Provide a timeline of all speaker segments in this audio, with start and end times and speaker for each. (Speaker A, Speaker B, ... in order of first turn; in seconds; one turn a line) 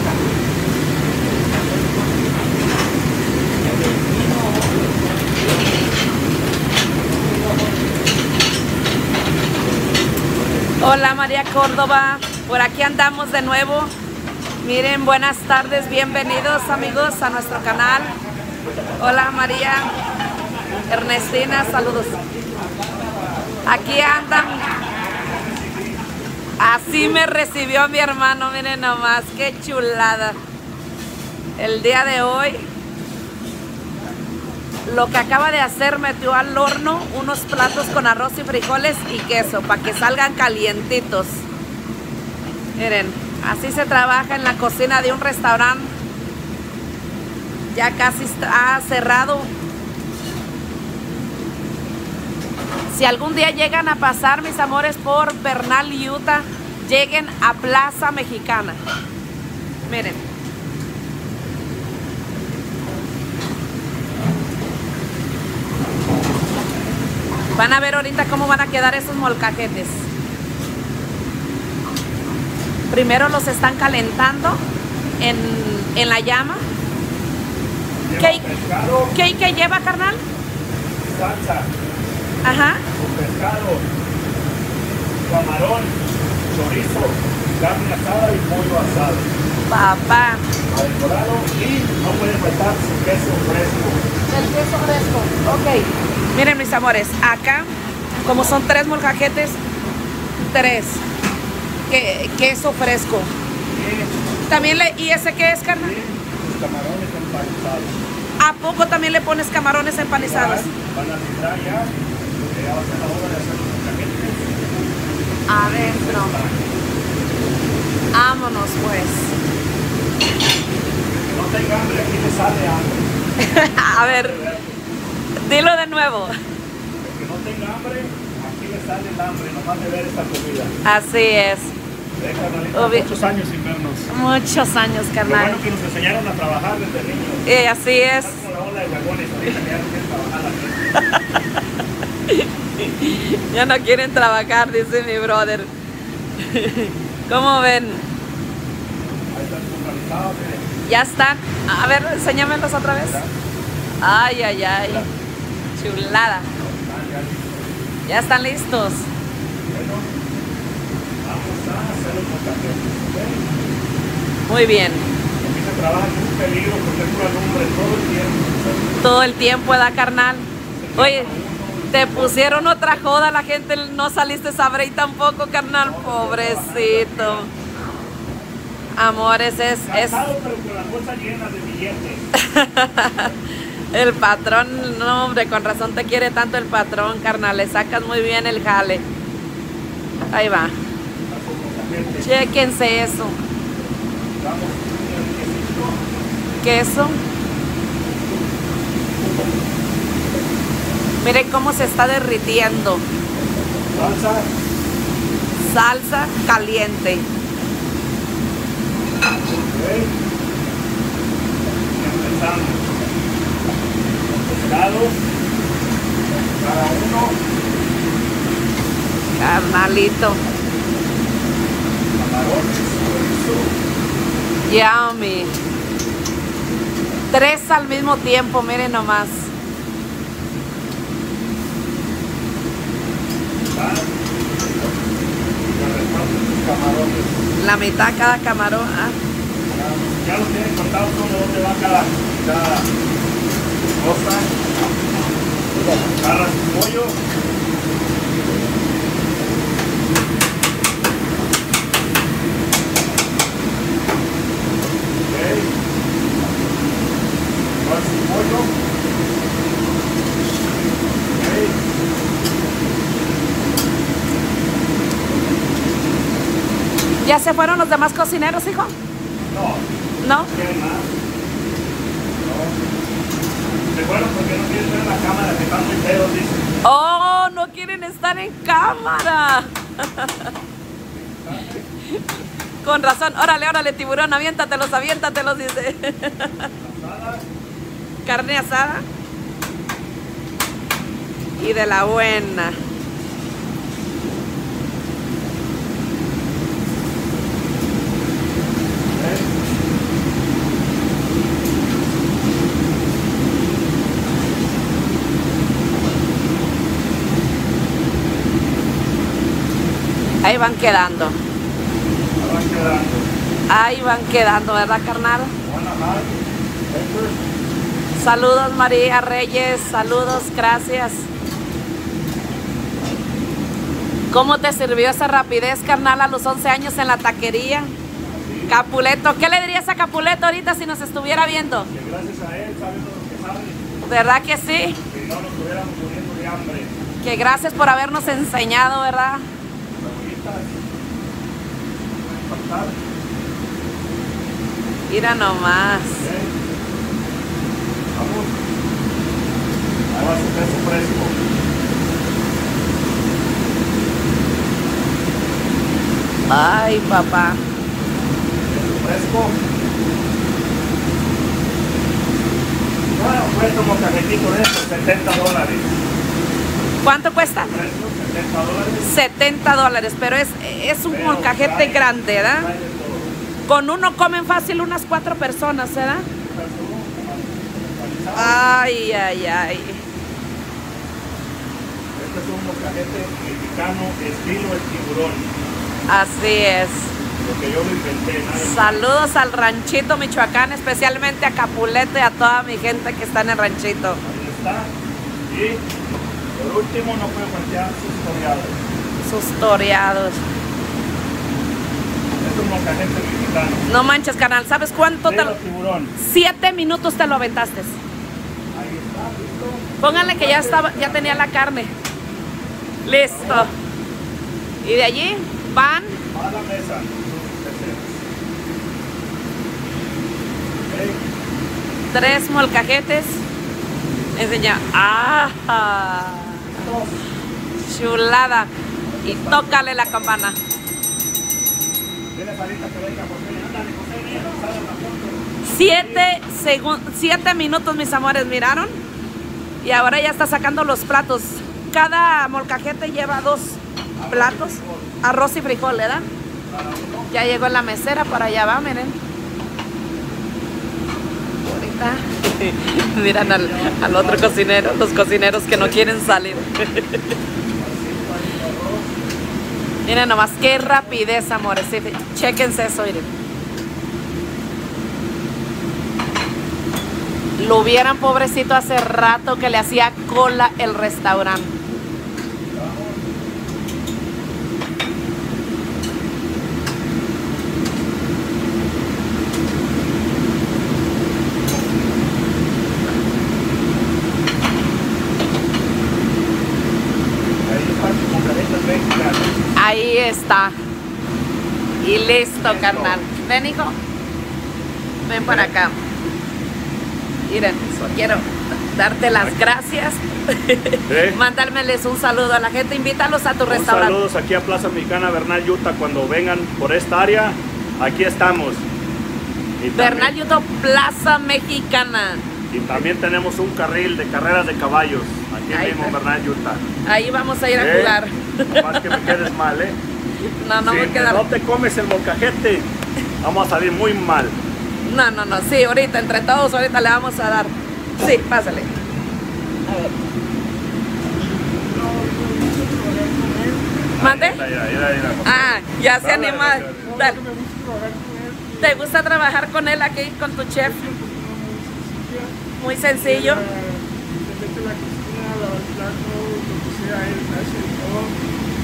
Speaker A: 10.8-13.9
Speaker A: 14.6-18.1
Speaker B: 18.7-19.0
Speaker A: 19.0-19.9
Speaker B: 20.8-23.4
Speaker A: 20.9-22.1
Speaker A: 23.6-24.6
Speaker B: 25.4-25.9
Speaker A: 26.6-30.4
Speaker A: 31.6-32.6
Speaker A: 34.9-41.4
Speaker A: 42.8-45.9
Speaker A: 47.7-49.5
Speaker A: 52.9-58.8
Speaker A: 59.9-60.2
Speaker A: 67.5-70.0
Speaker A: 72.9-74.6
Speaker A: 75.2-76.6
Speaker B: 78.0-79.2
Speaker A: 78.2-78.5
Speaker A: 79.1-80.2
Speaker B: 81.0-81.7
Speaker A: 82.4-82.8
Speaker B: 83.0-83.8
Speaker B: 85.2-86.0
Speaker B: 86.5-89.3
Speaker A: 89.7-90.4
Speaker B: 90.7-94.0
Speaker A: 94.3-97.7
Speaker A: 98.2-99.6
Speaker A: 100.5-101.0
Speaker A: 101.9-103.3
Speaker B: 103.7-104.1
Speaker A: 104.5-105.9
Speaker B: 105.8-108.0
Speaker A: 108.4-110.7
Speaker B: 110.2-114.5
Speaker A: 115.5-116.4
Speaker B: 115.5-116.7
Speaker A: 118.1-119.3
Speaker B: 121.1-123.1
Speaker A: 123.4-124.4
Speaker B: 123.9-124.8
Speaker A: 125.4-126.3
Speaker B: 127.0-130.7
Speaker A: 130.8-131.7
Speaker B: 132.2-134.1
Speaker A: 132.7-133.1
Speaker A: 134.1-135.6
Speaker B: 135.2-137.5
Speaker A: 137.4-138.4
Speaker B: 138.2-140.8
Speaker A: 141.1-141.4
Speaker A: 142.3-145.7
Speaker A: 146.4-148.0
Speaker B: 149.3-150.7
Speaker A: 150.8-153.2
Speaker B: 153.0-153.3
Speaker A: 154.0-155.1
Speaker A: 155.7-156.5
Speaker B: 156.6-157.7
Speaker A: 158.1-159.1
Speaker B: 159.7-160.1
Speaker B: 161.2-163.4
Speaker A: 164.5-165.1
Speaker B: 165.4-168.8
Speaker A: 169.0-171.3
Speaker B: 170.7-172.8
Speaker A: 171.9-177.5
Speaker B: 175.8-177.5
Speaker A: 179.0-180.2
Speaker B: 179.9-182.2
Speaker A: 182.3-183.3
Speaker A: 183.9-189.0
Speaker A: 190.3-190.7
Speaker B: 191.3-192.3
Speaker A: 192.2-193.4
Speaker B: 194.4-196.0
Speaker A: 196.6-197.2
Speaker A: 201.2-203.0
Speaker B: 203.9-204.5
Speaker A: 205.6-207.2
Speaker B: 209.4-210.1
Speaker B: 211.9-212.8
Speaker B: 214.4-215.2
Speaker B: 216.5-217.4
Speaker A: 219.3-220.4
Speaker B: 222.1-223.7
Speaker A: 224.7-225.5
Speaker A: 227.3-229.5
Speaker B: 233.7-234.1
Speaker B: 235.7-237.3
Speaker A: 237.6-239.2
Speaker B: 239.7-242.9
Speaker B: 244.0-244.5
Speaker B: 246.2-247.2
Speaker B: 255.2-255.7
Speaker B: 257.8-258.7
Speaker B: 261.3-261.8
Speaker A: 267.2-268.9
Speaker B: 269.5-269.8
Speaker A: 270.2-270.5
Speaker B: 270.5-271.1
Speaker B: 272.4-272.8
Speaker B: 273.9-276.6
Speaker A: 276.8-280.5
Speaker B: 281.1-281.8
Speaker A: 282.8-286.7
Speaker B: 286.8-287.4
Speaker A: 288.2-289.0
Speaker A: 291.6-292.8
Speaker B: 299.1-299.5
Speaker A: 310.4-311.4
Speaker B: 312.4-313.3
Speaker A: 313.7-315.5
Speaker B: 315.6-316.4
Speaker B: 316.9-317.4
Speaker A: 318.2-321.3
Speaker A: 324.3-327.9
Speaker B: 328.2-328.8
Speaker A: 328.7-331.9
Speaker B: 331.9-333.8
Speaker A: 334.1-335.0
Speaker B: 335.1-336.9
Speaker A: 337.2-339.4
Speaker B: 340.0-340.8
Speaker B: 342.4-342.9
Speaker A: 345.1-346.2
Speaker B: 346.1-346.5
Speaker B: 348.1-348.5
Speaker B: 350.1-351.4
Speaker A: 356.5-357.6
Speaker B: 358.7-359.6
Speaker B: 363.1-365.9
Speaker A: 367.0-367.7
Speaker B: 367.5-369.1
Speaker A: 369.0-372.7
Speaker B: 371.1-373.4
Speaker A: 373.7-376.2
Speaker B: 376.4-378.6
Speaker A: 378.3-380.0
Speaker B: 382.1-385.5
Speaker A: 386.1-387.1
Speaker B: 387.4-389.0
Speaker A: 388.6-394.2
Speaker B: 394.2-394.9
Speaker B: 395.5-395.9
Speaker B: 396.5-398.8
Speaker A: 399.2-400.4
Speaker B: 402.4-403.8
Speaker A: 403.9-405.5
Speaker B: 405.2-406.1
Speaker A: 406.2-408.0
Speaker B: 408.7-411.5
Speaker A: 410.0-411.9
Speaker A: 413.1-413.7
Speaker B: 413.2-413.7
Speaker A: 414.8-416.2
Speaker B: 416.3-418.2
Speaker B: 420.9-421.2
Speaker A: 422.1-423.4
Speaker A: 424.3-426.9
Speaker B: 426.8-427.2
Speaker A: 427.8-428.7
Speaker B: 429.2-430.4
Speaker A: 429.2-430.6
Speaker B: 432.3-436.3
Speaker A: 435.6-438.9
Speaker A: 439.8-446.3
Speaker B: 444.1-445.2
Speaker B: 446.6-447.3
Speaker A: 447.3-449.2
Speaker A: 451.6-457.2
Speaker B: 453.3-454.9
Speaker B: 455.7-456.3
Speaker B: 457.8-459.3
Speaker A: 460.0-463.3
Speaker B: 460.7-461.2
Speaker A: 467.6-471.7
Speaker B: 472.7-473.3
Speaker B: 487.6-489.5
Speaker A: 489.7-490.7
Speaker A: 492.0-493.9
Speaker B: 492.6-493.2
Speaker A: 495.3-496.0
Speaker B: 495.5-495.7
Speaker A: 497.5-504.2
Speaker B: 497.9-498.1
Speaker B: 501.1-501.4
Speaker B: 503.7-508.8
Speaker B: 509.8-510.3
Speaker A: 509.9-512.4
Speaker B: 512.7-516.8
Speaker A: 515.7-516.1
Speaker A: 517.0-519.3
Speaker B: 517.7-518.2
Speaker B: 518.7-520.0
Speaker A: 520.6-521.4
Speaker B: 520.8-522.9
Speaker B: 523.4-524.5
Speaker A: 525.0-528.9
Speaker A: 529.9-530.1
Speaker C: 531.9-533.9
Speaker B: 533.9-537.3
Speaker A: 534.2-534.6
Speaker A: 535.4-537.4
Speaker C: 537.0-539.1
Speaker A: 538.8-541.0
Speaker C: 540.8-542.5
Speaker A: 542.8-543.6
Speaker C: 543.1-548.3